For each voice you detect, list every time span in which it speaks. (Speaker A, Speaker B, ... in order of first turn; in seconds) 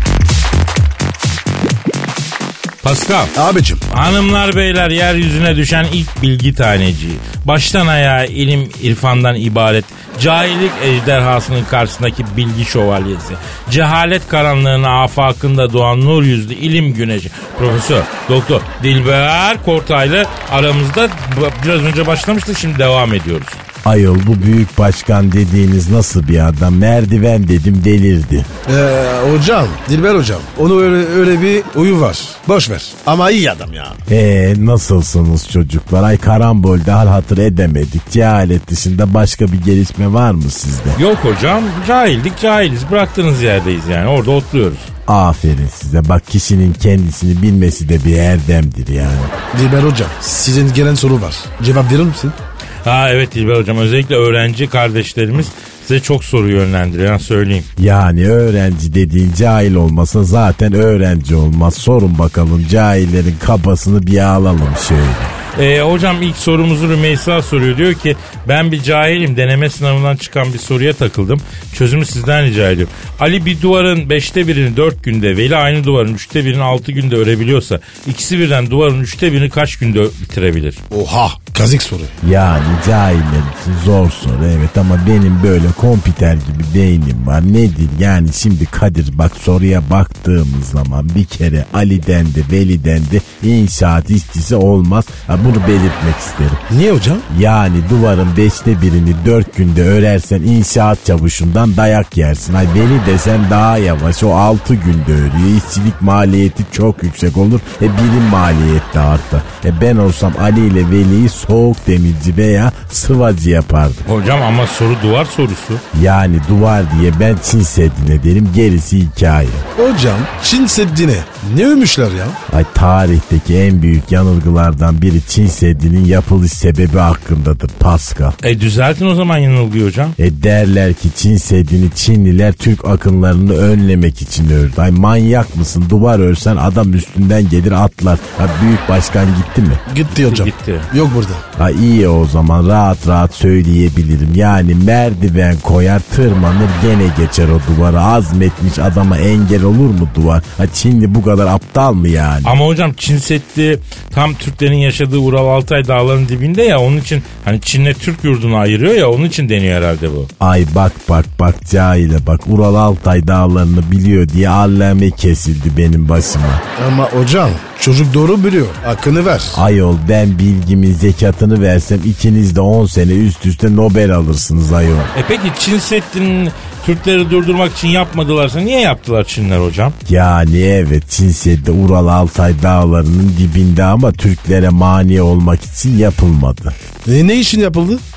Speaker A: 2.8-3.3, 3.9-23.6, 41.0-44.9, 52.9-57.7, 65.6-80.8, 114.0-115.8, 128.4-130.2, 140.1-140.9, 152.4-160.3, 175.1-179.9
Speaker B: 3.4-3.8, 28.7-34.0, 49.5-52.4, 80.9-82.1, 96.7-97.3, 119.8-122.4, 139.9-141.4, 166.8-169.6, 187.1-188.0
Speaker C: 23.9-28.5, 34.1-41.0, 45.1-49.3, 57.8-65.3, 82.2-96.6, 97.3-114.0, 115.9-119.7, 122.5-128.4, 130.2-139.8, 141.6-152.6, 160.4-166.6, 169.5-175.1, 180.1-186.7